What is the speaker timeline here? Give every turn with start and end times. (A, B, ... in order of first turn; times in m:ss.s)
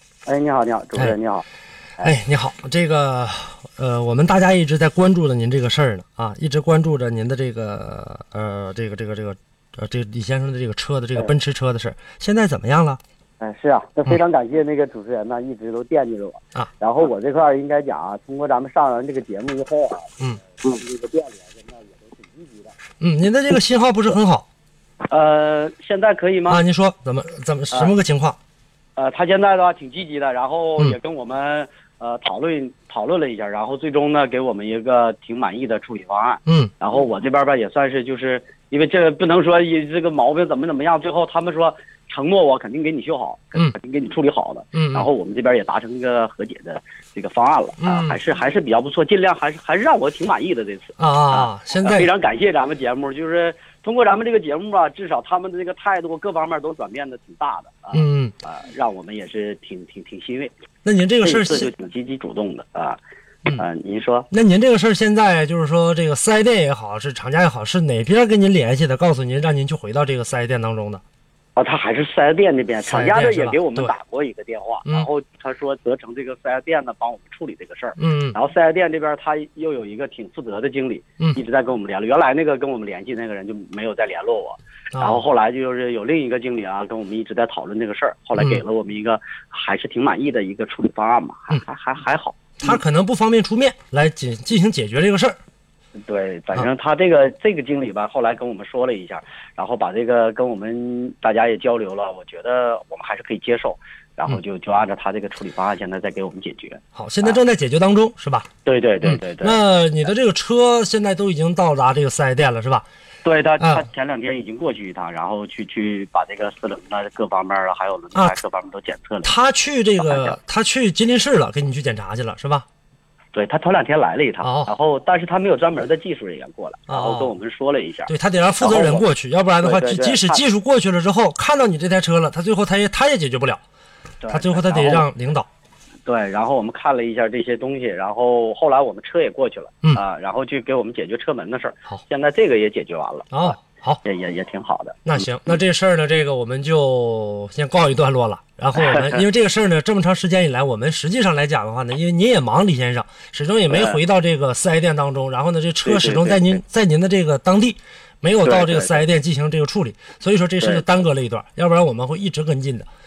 0:00.2-0:01.4 A
0:02.0-0:13.0 B
0:13.4-0:22.7 A
0:23.0-0:24.4 B
0:25.1-0:26.6 A
0:26.5-0:28.4 B
0:29.0-1:00.5 A
0:44.7-0:45.1 B
0:47.8-0:48.1 B
0:51.0-0:52.1 B
0:57.9-0:58.3 B
1:00.8-1:01.7 B
1:01.2-1:03.0 A
1:03.6-1:04.3 A
1:04.3-1:11.0 B
1:11.6-1:32.7 A
1:12.8-1:13.9 B
1:18.0-1:18.4 B
1:24.9-1:25.2 B
1:32.6-1:35.4 B
1:36.0-1:47.4 A
1:46.9-1:48.5 B
1:48.6-1:49.6 A
1:49.0-1:52.8 B
1:53.2-1:59.3 A
1:59.2-2:02.6 B
2:00.0-2:00.4 A
2:03.3-2:09.0 A
2:04.4-2:04.7 B
2:06.9-2:07.3 B
2:08.1-2:13.6 B
2:09.6-2:10.4 A
2:14.2-2:15.0 A
2:14.3-2:15.5 B
2:16.0-2:25.1 A
2:23.3-2:24.0 B
2:25.0-2:42.9 B
2:28.7-2:29.2 A
2:33.7-2:34.0 A
2:35.8-2:36.6 A
2:38.4-2:39.0 A